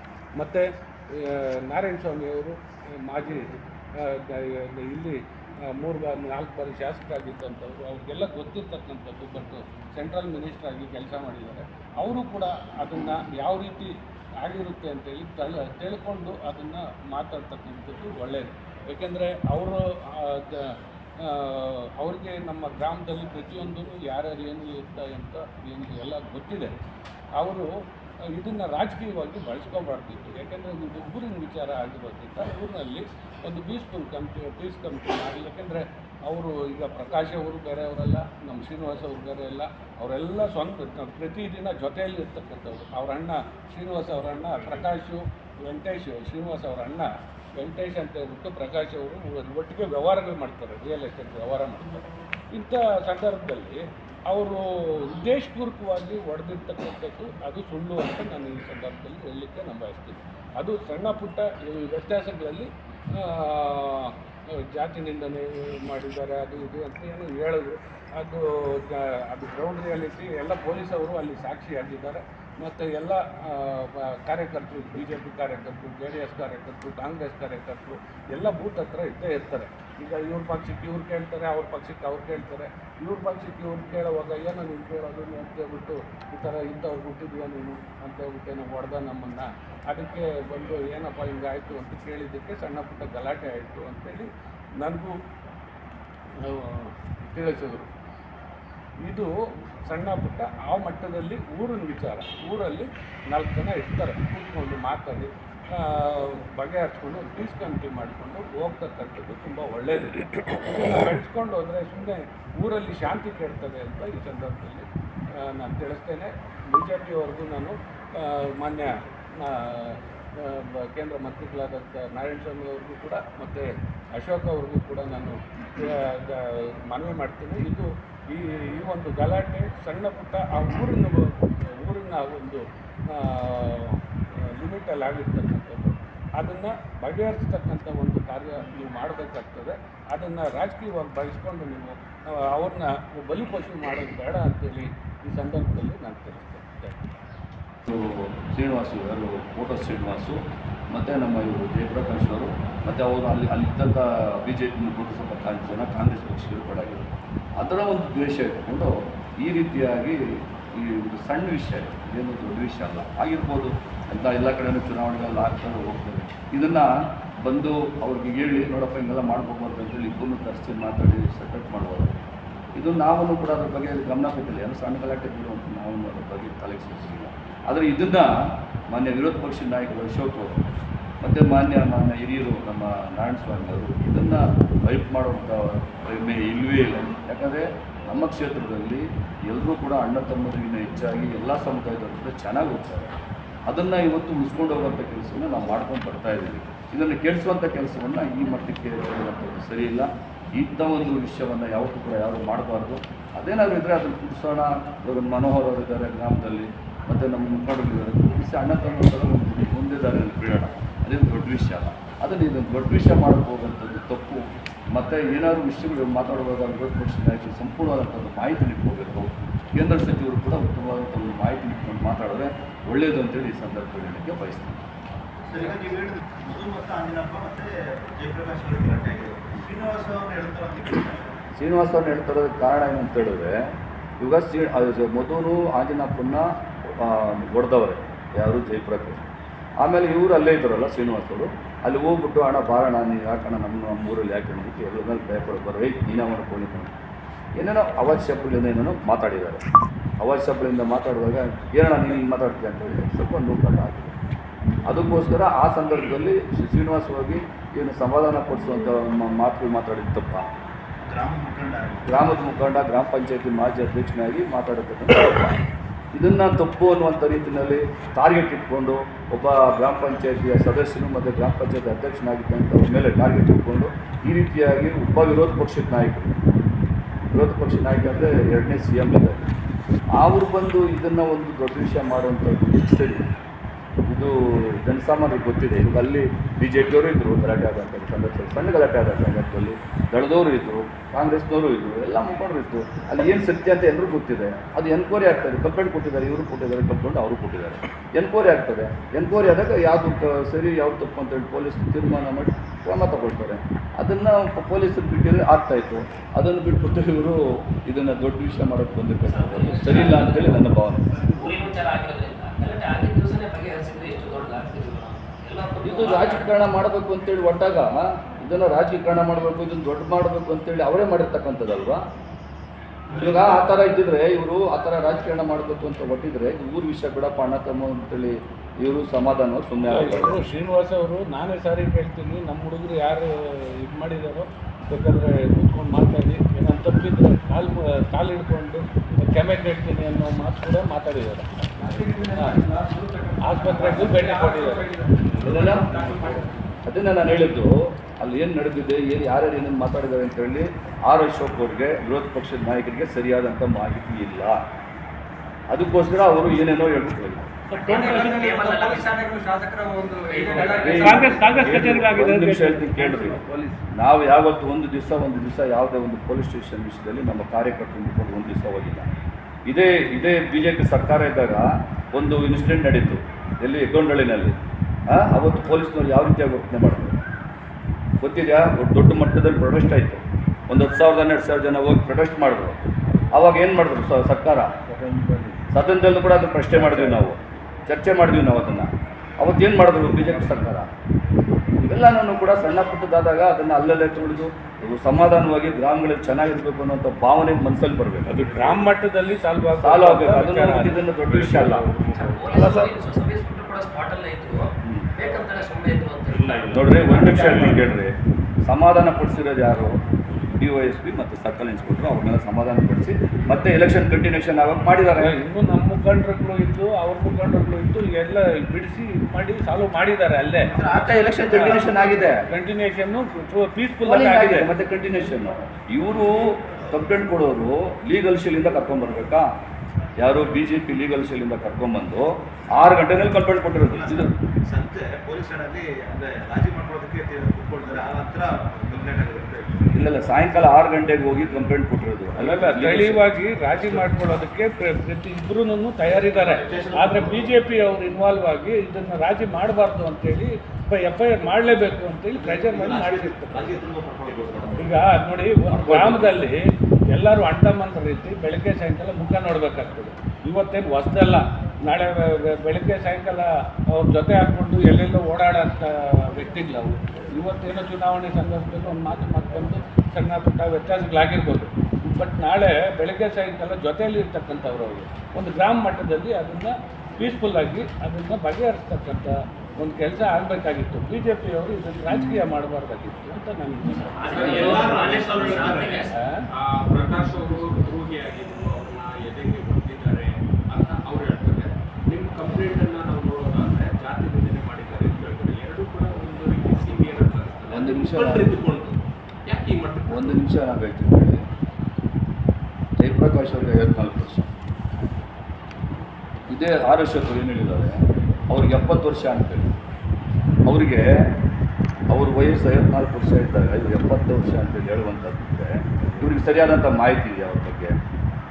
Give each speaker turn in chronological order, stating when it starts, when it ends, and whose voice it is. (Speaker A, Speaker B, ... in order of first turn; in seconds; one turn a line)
Speaker A: 0.4-26.7
Speaker A: 27.4-27.7
Speaker A: 28.2-95.2
Speaker A: 96.4-97.9
Speaker A: 99.0-99.3
Speaker A: 99.9-147.1
Speaker B: 147.9-160.2
Speaker B: 160.7-172.1
Speaker B: 172.8-178.3
Speaker B: 178.9-180.6
Speaker B: 181.2-193.1
Speaker B: 193.7-224.8
Speaker C: 225.5-231.2
Speaker B: 231.6-239.3
Speaker B: 239.8-246.9
Speaker B: 247.6-249.6
Speaker B: 250.2-254.2
Speaker B: 254.9-260.5
Speaker C: 261.0-262.1
Speaker B: 262.1-265.6
Speaker B: 266.1-276.3
Speaker B: 277.3-279.4
Speaker B: 280.2-283.2
Speaker B: 284.1-311.1
Speaker D: 309.2-310.7
Speaker D: 311.3-316.5
Speaker B: 315.8-322.0
Speaker B: 323.1-330.4
Speaker A: 329.9-341.5
Speaker A: 342.4-342.6
Speaker A: 343.4-344.9
Speaker E: 343.6-346.5
Speaker B: 345.4-345.9
Speaker B: 346.9-354.6
Speaker B: 355.7-357.5
Speaker A: 357.7-358.4
Speaker D: 357.8-359.3
Speaker E: 358.0-359.1
Speaker D: 360.3-361.1
Speaker E: 360.3-360.9
Speaker B: 360.7-369.1
Speaker A: 360.8-363.4
Speaker B: 369.7-374.6
Speaker B: 375.1-377.2
Speaker B: 378.2-382.8
Speaker B: 383.3-384.7
Speaker B: 385.7-390.9
Speaker B: 391.8-398.7
Speaker A: 398.3-401.0
Speaker B: 399.8-401.9
Speaker E: 401.3-402.9
Speaker D: 402.1-406.8
Speaker B: 404.8-405.1
Speaker E: 406.3-407.9
Speaker B: 406.7-410.0
Speaker B: 410.6-415.4
Speaker A: 415.2-420.7
Speaker C: 420.7-422.3
Speaker B: 420.9-422.4
Speaker A: 421.5-421.8
Speaker A: 422.5-424.7
Speaker B: 424.0-429.5
Speaker B: 430.2-434.4
Speaker C: 433.8-439.8
Speaker B: 439.9-443.2
Speaker A: 442.4-453.8
Speaker C: 446.6-447.5
Speaker C: 452.4-454.9
Speaker A: 454.8-486.4
Speaker B: 455.7-456.4
Speaker E: 484.2-500.4
Speaker D: 484.2-486.1
Speaker B: 497.7-498.5
Speaker B: 500.1-501.5
Speaker B: 503.0-504.5
Speaker B: 506.5-509.7
Speaker B: 510.7-511.4
Speaker B: 512.1-518.0